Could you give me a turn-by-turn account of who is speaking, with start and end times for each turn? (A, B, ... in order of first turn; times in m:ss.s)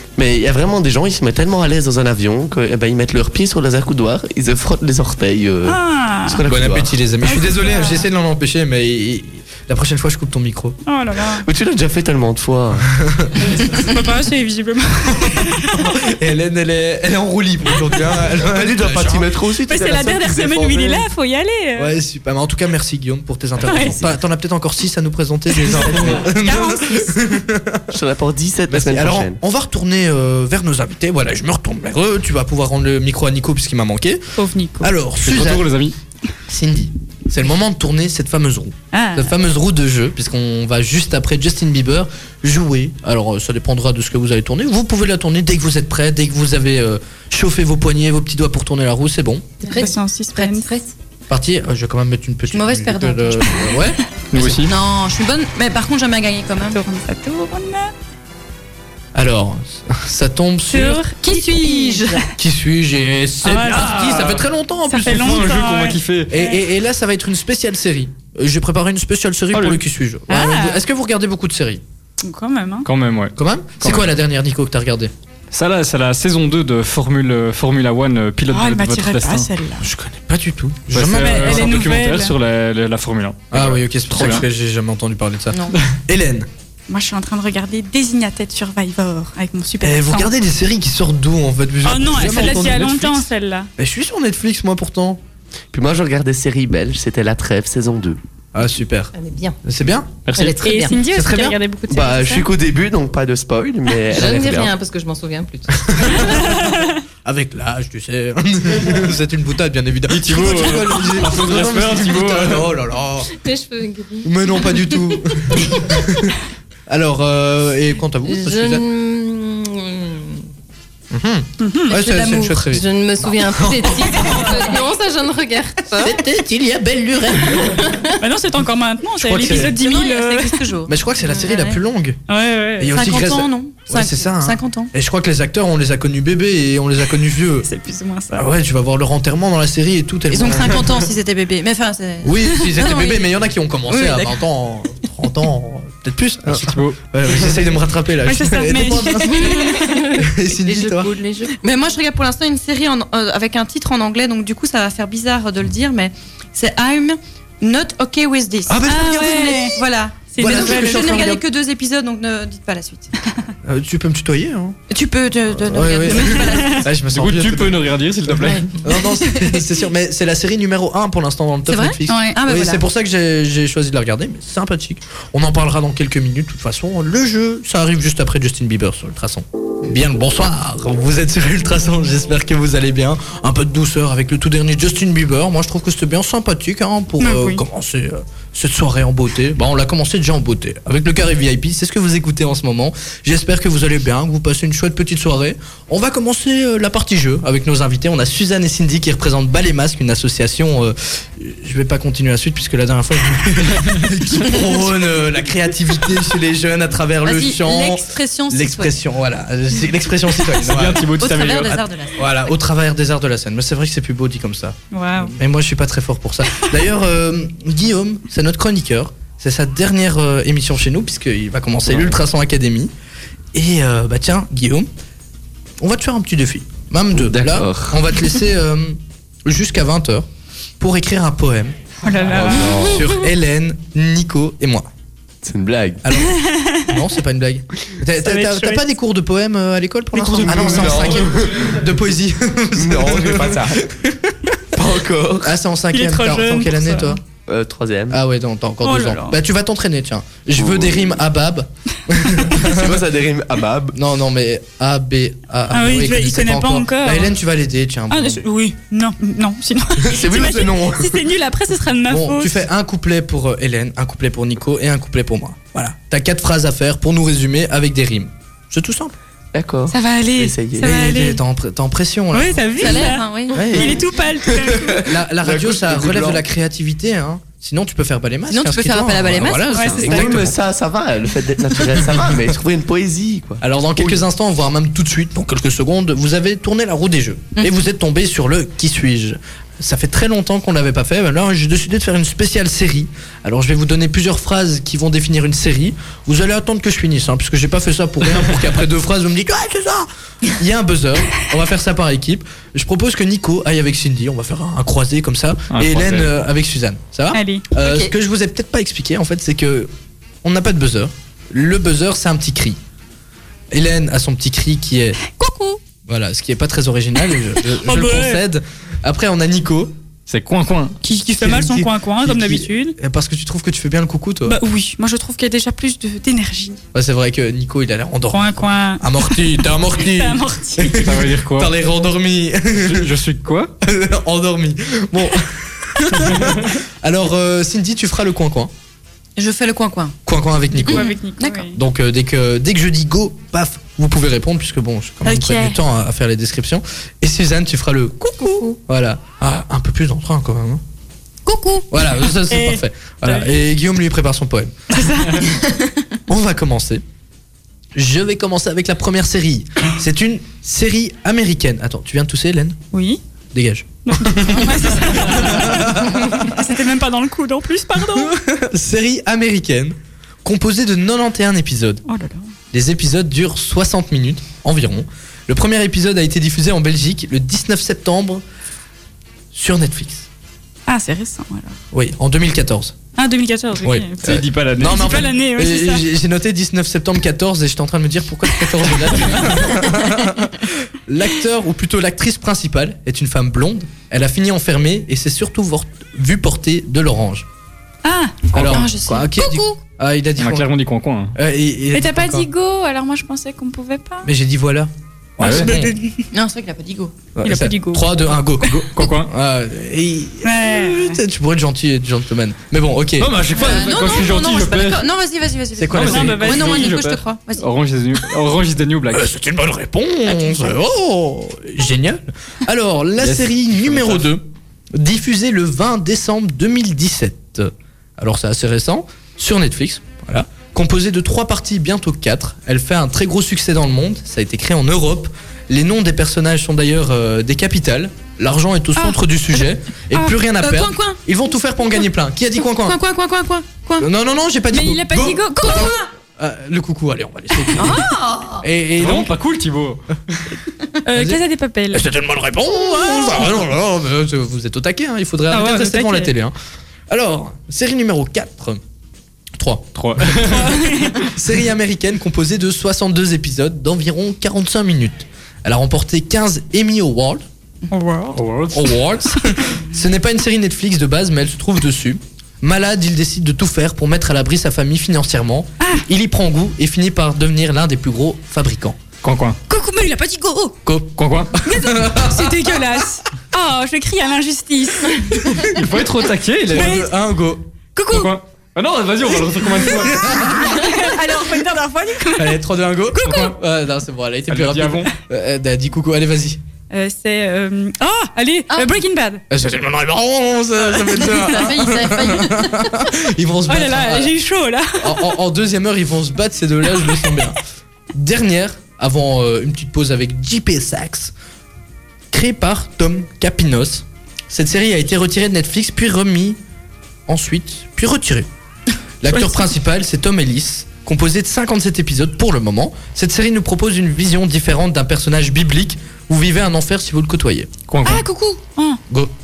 0:00.2-0:07.0 A
0:05.6-0:06.4 B
0:06.5-0:10.8 C
0:07.2-0:08.1 B
0:10.9-0:11.5 B
0:11.4-0:12.9 A
0:13.0-0:13.6 C
0:13.5-0:15.9 B
0:15.1-0:19.3 C
0:18.4-0:21.1 A
0:19.7-0:22.0 B
0:21.8-0:27.9 C
0:23.6-0:24.0 B
0:23.7-0:24.0 A
0:25.5-0:27.4 B
0:27.9-0:29.4 A
0:28.7-0:34.3 C
0:34.4-0:34.9 B
0:34.8-0:35.7 C
0:35.2-0:36.0 D
0:36.5-0:49.5 C
0:38.9-0:39.3 B
0:49.6-0:50.9 E
0:49.8-0:50.7 B
0:51.3-0:54.7 C
0:52.5-0:53.8 F
0:54.3-0:54.7 D
0:54.6-0:56.8 F
0:56.7-0:57.9 B
0:59.1-1:01.0 C
1:00.7-1:02.3 B
1:01.2-1:02.3 F
1:02.4-1:05.7 C
1:03.4-1:04.2 B
1:03.7-1:04.4 D
1:04.9-1:06.4 B
1:05.0-1:06.3 D
1:06.3-1:11.8 C
1:09.5-1:09.8 D
1:10.3-1:10.8 B
1:12.2-1:12.9 B
1:12.8-1:14.1 D
1:13.4-1:15.1 C
1:15.5-1:19.5 D
1:18.5-1:19.9 B
1:19.8-1:21.9 C
1:20.9-1:24.5 D
1:21.1-1:22.4 B
1:23.5-1:26.5 C
1:25.5-1:25.8 F
1:26.9-1:30.3 B
1:29.8-1:33.2 C
1:31.8-1:33.7 B
1:33.8-1:35.2 C
1:35.7-1:38.2 A
1:38.5-1:39.1 C
1:39.1-1:39.6 E
1:39.6-1:40.2 C
1:40.2-1:40.6 D
1:40.4-1:41.0 E
1:40.6-1:42.5 B
1:41.1-1:41.6 C
1:41.9-1:44.7 A
1:44.1-1:46.4 E
1:45.9-1:46.6 C
1:46.4-1:46.9 B
1:47.2-1:53.3 C
1:50.1-1:52.7 D
1:53.3-1:54.3 E
1:54.2-1:56.4 C
1:56.9-1:58.8 C
1:58.3-2:00.5 E
2:01.1-2:04.7 C
2:01.6-2:02.0 B
2:01.9-2:02.7 F
2:02.7-2:06.2 E
2:06.0-2:08.0 C
2:08.2-2:10.7 B
2:09.2-2:09.8 C
2:09.5-2:11.8 F
2:10.9-2:12.2 C
2:12.3-2:13.0 B
2:12.8-2:17.7 C
2:12.9-2:14.9 F
2:17.6-2:18.5 B
2:18.3-2:21.1 C
2:20.3-2:23.3 F
2:22.2-2:31.2 C
2:23.9-2:24.4 F
2:26.5-2:27.0 D
2:28.2-2:30.0 B
2:30.7-2:43.2 F
2:31.0-2:31.5 E
2:38.7-2:39.4 C
2:38.9-2:39.8 B
2:40.3-2:41.4 B
2:40.4-2:41.4 C
2:43.6-2:44.8 C
2:44.9-2:47.0 F
2:45.5-2:47.9 C
2:46.4-2:46.8 B
2:47.1-2:48.8 D
2:48.8-3:31.1 C
2:51.7-2:52.8 F
3:07.2-3:07.6 B
3:27.2-3:29.0 F
3:30.6-3:31.8 D
3:31.2-3:32.5 F
3:32.2-3:42.9 C
3:34.9-3:35.3 B
3:43.5-3:44.9 C
3:45.8-3:50.3 C
3:47.2-3:48.0 A
3:50.8-3:54.9 C
3:52.0-3:53.1 B
3:52.4-3:53.1 A
3:55.4-3:56.0 A
3:56.0-4:04.5 C
3:56.2-3:57.0 B
3:58.2-3:58.8 B
4:00.2-4:01.7 A
4:02.8-4:03.8 A
4:04.7-4:05.5 A
4:05.4-4:07.2 C
4:05.9-4:07.2 B
4:07.5-4:08.2 A
4:08.1-4:13.0 C
4:08.8-4:09.4 B
4:10.6-4:11.1 A
4:12.6-4:14.0 A
4:13.9-4:18.4 C
4:15.7-4:17.3 B
4:18.1-4:22.6 B
4:20.1-4:21.2 C
4:22.1-4:29.2 C
4:29.5-4:30.9 A
4:29.9-4:31.4 B
4:30.8-4:34.0 C
4:32.3-4:35.1 B
4:32.8-4:34.0 F
4:33.6-4:36.4 A
4:35.0-4:40.6 C
4:38.5-4:40.4 F
4:39.7-4:40.1 B
4:40.0-4:44.2 A
4:42.0-4:42.4 C
4:43.6-5:09.9 C
5:05.7-5:06.3 D
5:07.3-5:07.7 B
5:10.4-5:12.8 C
5:13.7-5:15.2 C
5:15.4-5:15.8 B
5:16.1-5:20.0 C
5:17.8-5:18.4 B
5:20.3-5:21.0 D
5:21.0-5:23.0 B
5:21.4-5:24.6 C
5:24.5-5:26.8 B
5:26.9-5:33.1 C
5:28.3-5:31.1 B
5:31.0-5:31.7 D
5:32.8-5:33.7 D
5:33.8-5:38.7 C
5:39.4-5:40.2 F
5:40.3-5:41.1 C
5:40.8-5:41.6 F
5:40.9-5:41.8 B
5:41.7-5:50.8 C
5:45.3-5:45.8 B
5:51.5-5:51.8 F
5:51.5-5:53.5 B
5:51.9-5:54.8 C
5:54.9-5:55.5 B
5:56.3-5:57.0 C
5:58.0-6:02.8 C
6:02.9-6:03.2 B
6:03.5-6:06.6 C
6:04.1-6:08.4 B
6:08.2-6:12.0 C
6:12.1-6:12.5 B
6:12.7-6:18.4 C
6:19.5-6:20.3 C
6:20.9-6:21.8 B
6:21.9-6:23.0 C
6:23.2-6:26.1 B
6:23.8-6:37.5 C
6:24.2-6:25.1 D
6:38.0-6:38.9 B
6:38.5-6:39.7 F
6:38.5-6:40.7 C
6:40.4-6:41.4 D
6:41.4-6:42.5 C
6:41.9-6:44.3 B
6:44.2-6:45.9 C
6:45.4-6:45.7 D
6:45.4-6:46.3 B
6:46.3-6:47.2 F
6:47.4-6:53.6 C
6:47.4-6:48.1 B
6:48.8-6:49.3 D
6:50.4-6:51.2 B
6:53.2-6:55.0 D
6:53.5-6:57.7 F
6:55.8-6:56.8 C
6:55.9-6:59.3 D
6:56.0-6:57.0 B
6:59.1-7:23.0 C
7:03.2-7:04.2 D
7:20.1-7:21.2 F
7:22.6-7:24.1 F
7:24.0-7:28.1 C
7:24.7-7:26.0 B
7:27.8-7:28.6 F
7:28.6-7:29.3 C
7:29.0-7:30.0 D
7:31.0-7:32.1 B
7:31.1-7:36.6 C
7:35.5-7:36.3 B
7:37.1-7:38.8 C
7:39.6-7:47.4 C
7:40.0-7:40.8 D
7:40.5-7:41.3 B
7:47.9-7:48.4 B
7:48.3-7:48.9 D
7:48.7-7:59.0 C
7:59.2-7:59.6 D
7:59.7-8:00.8 B
8:00.9-8:02.8 C
8:01.2-8:01.6 D
8:01.7-8:05.7 B
8:05.7-8:07.0 D
8:06.6-8:07.6 C
8:06.7-8:07.1 B
8:08.0-8:08.3 B
8:08.1-8:10.3 D
8:10.0-8:12.6 B
8:10.1-8:10.9 C
8:12.4-8:16.6 C
8:13.1-8:13.5 B
8:14.5-8:15.1 D
8:16.9-8:19.4 B
8:19.5-8:24.3 C
8:21.2-8:22.9 F
8:23.7-8:25.3 B
8:25.0-8:27.6 C
8:27.0-8:27.3 B
8:28.1-8:31.3 C
8:32.3-8:36.6 C
8:37.3-8:38.5 C
8:39.2-8:47.7 C
8:47.9-8:48.3 D
8:48.0-8:49.0 B